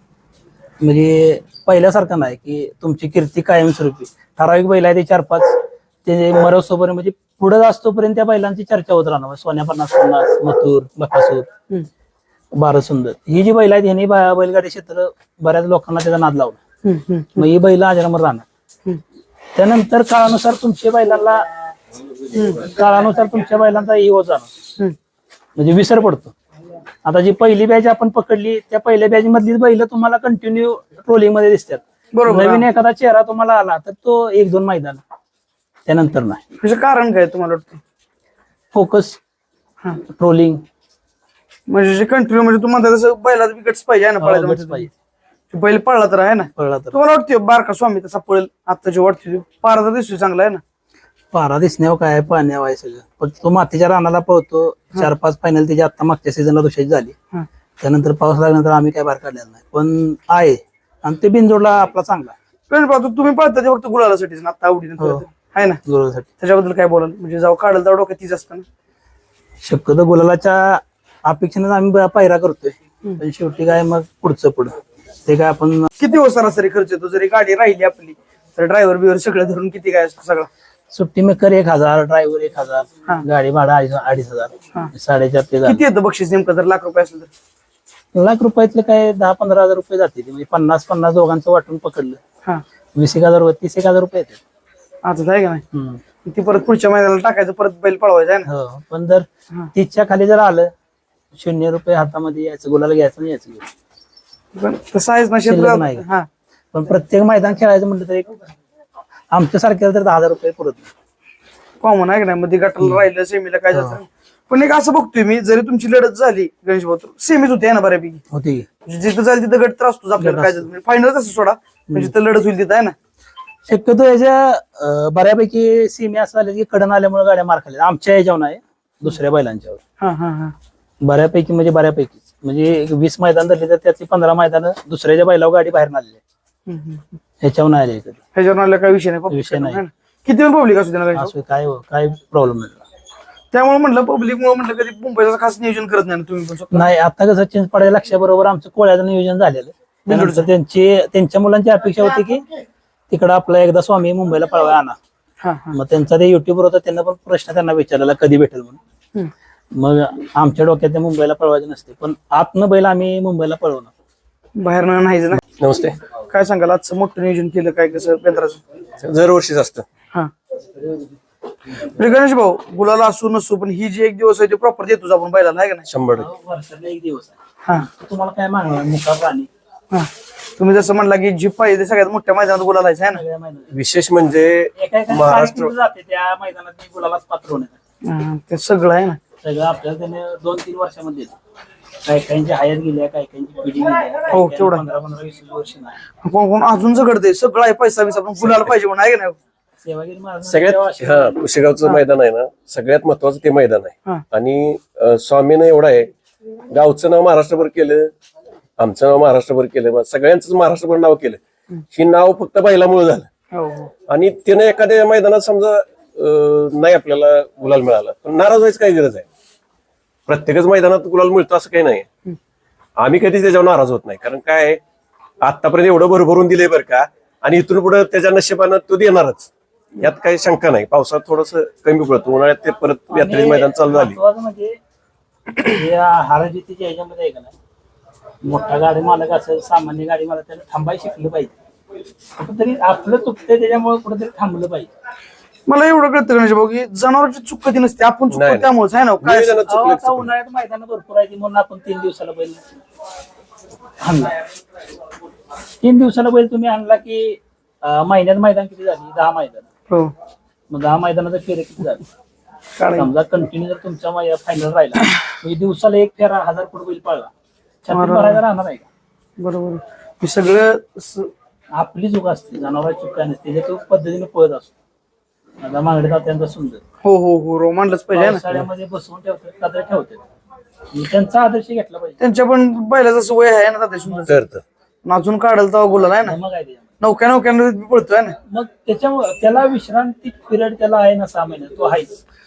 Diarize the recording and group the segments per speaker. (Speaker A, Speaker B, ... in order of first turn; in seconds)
Speaker A: 0.8-11.5, 12.5-16.6, 17.4-18.5, 19.6-21.4, 22.6-24.5, 25.6-26.4, 27.1-35.0, 35.9-36.4, 38.7-39.2, 40.0-40.6, 44.2-44.9, 46.6-47.0, 51.3-57.2, 57.8-62.4, 65.8-66.3, 69.6-75.9, 80.9-85.8, 88.1-92.2, 93.0-94.4, 95.7-96.0, 98.5-100.7, 101.3-103.7, 105.5-106.0, 106.7-108.3, 109.3-110.9, 118.3-118.7, 120.2-120.7, 123.7-129.8, 131.0-136.2, 137.4-138.2, 139.3-139.8, 141.2-142.8, 146.7-152.4, 153.1-155.0, 155.7-158.8, 159.7-163.9, 176.2-177.4, 177.9-179.5, 183.1-183.7, 184.8-187.8, 189.4-191.3, 192.0-196.0, 199.8-201.4, 233.1-234.8, 235.6-237.5, 238.4-241.5, 242.4-244.9, 249.7-252.6, 254.0-254.4, 255.8-259.7, 260.7-262.1, 262.9-267.3, 267.8-268.9, 271.7-274.7, 275.6-276.8, 278.1-280.2, 280.9-282.2, 286.2-286.9, 288.5-292.2
Speaker B: 16.8-17.5, 22.3-22.6, 32.1-32.7, 36.6-37.8, 41.7-44.9, 45.5-50.6, 62.7-65.8, 66.4-68.7, 76.0-80.5, 85.7-87.3, 95.0-95.6, 96.2-98.5, 104.5-106.3, 111.8-118.2, 118.9-123.0, 130.0-130.6, 136.7-137.1, 138.3-141.3, 143.5-146.9, 150.1-150.5, 155.4-155.8, 164.6-165.4, 166.3-168.6, 171.8-175.9, 179.9-183.2, 188.0-189.2, 194.3-194.8, 196.2-199.4, 213.5-213.9, 245.7-249.6, 262.8-263.1, 267.9-268.4, 269.4-271.3, 277.0-278.6, 282.2-284.5, 285.1-286.4, 287.0-288.4
Speaker C: 165.6-166.0, 169.0-169.8, 175.9-176.3, 183.7-185.7, 200.5-206.1, 206.7-208.1, 208.8-211.4, 211.9-213.3, 214.1-219.3, 220.3-222.1, 223.0-224.8, 225.4-234.2, 248.3-248.7, 249.2-250.3, 284.3-284.6